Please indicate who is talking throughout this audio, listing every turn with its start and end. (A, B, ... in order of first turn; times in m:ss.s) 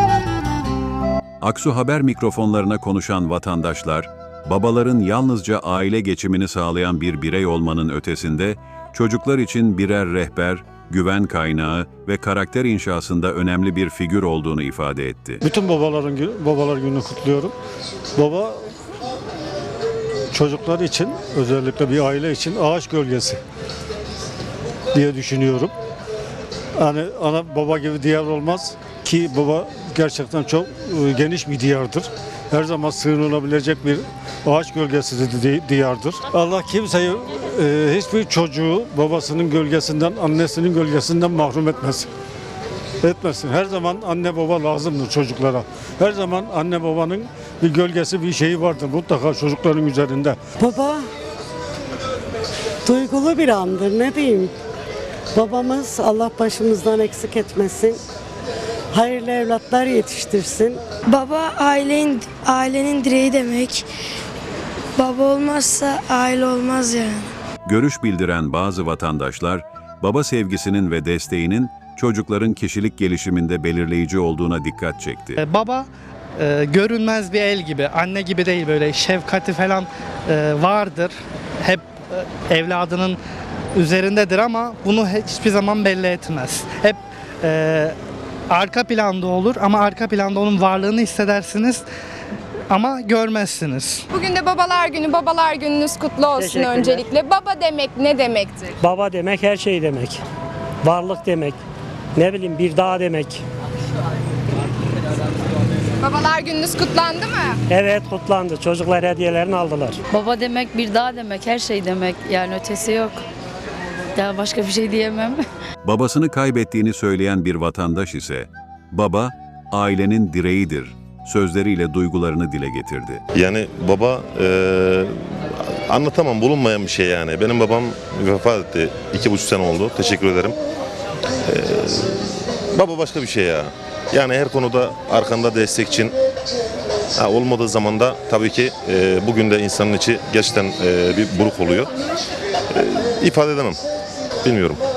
0:01.4-0:15.4 A
0:15.4-0:17.5 B
0:18.2-0:18.6 B
0:20.3-0:23.4 B
0:24.9-0:25.7 B
0:26.8-0:42.1 B
0:43.0-0:50.4 B
0:50.6-0:51.0 C
0:52.8-0:54.5 C
0:55.3-0:58.0 C
0:58.9-1:00.8 C
1:01.1-1:03.8 D
1:05.0-1:07.3 D
1:07.6-1:15.4 A
1:15.4-1:15.9 E
1:16.4-1:23.2 E
1:23.7-1:27.9 E
1:28.5-1:31.8 E
1:32.7-1:34.0 E
1:34.1-1:38.7 F
1:36.4-1:37.1 G
1:38.8-1:40.2 G
1:40.8-1:41.6 G
1:42.1-1:43.4 G
1:46.0-1:47.6 F
1:47.7-1:50.0 G
1:50.1-1:53.2 H
1:54.2-1:55.4 H
1:55.8-2:03.2 A
2:03.3-2:10.6 I
2:11.5-2:16.1 I
2:17.2-2:21.9 I
2:22.7-2:23.8 I
2:24.4-2:24.8 I